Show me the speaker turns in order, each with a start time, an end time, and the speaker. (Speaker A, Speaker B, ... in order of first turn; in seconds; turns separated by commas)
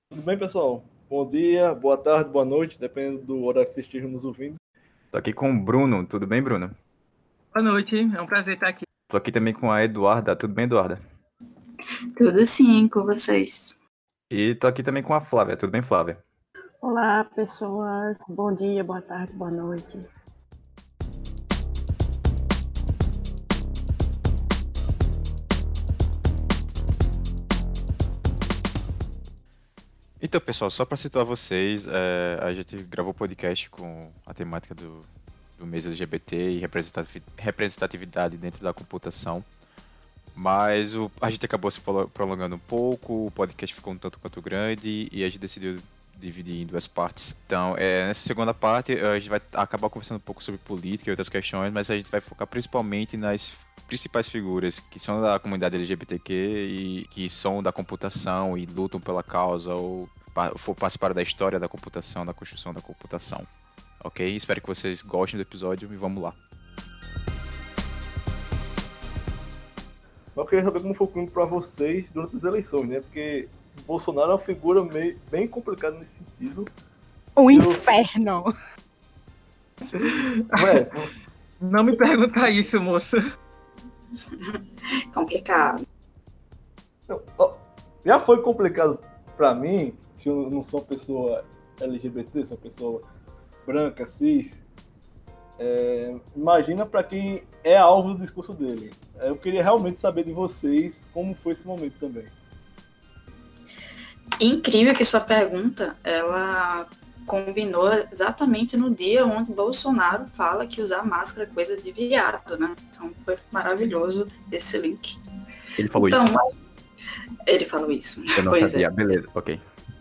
Speaker A: 0.1-4.6, Speaker B: 5.1-6.7, Speaker C: 7.5-8.9, Speaker B: 9.1-11.0, Speaker D: 12.2-13.8, Speaker B: 14.3-16.2, Speaker E: 16.8-20.0, Speaker B: 30.2-39.5, Speaker B: 40.4-63.5, Speaker B: 64.0-66.4, Speaker A: 70.3-76.7, Speaker E: 77.4-78.5, Speaker A: 77.5-77.8, Speaker C: 79.9-80.8, Speaker A: 80.5-81.1, Speaker C: 81.6-83.2, Speaker D: 85.1-85.8, Speaker A: 87.1-93.0, Speaker A: 93.7-94.6, Speaker A: 95.6-102.3, Speaker D: 104.4-115.2, Speaker B: 115.8-116.3, Speaker D: 115.9-116.4, Speaker D: 117.5-118.9, Speaker B: 118.3-119.6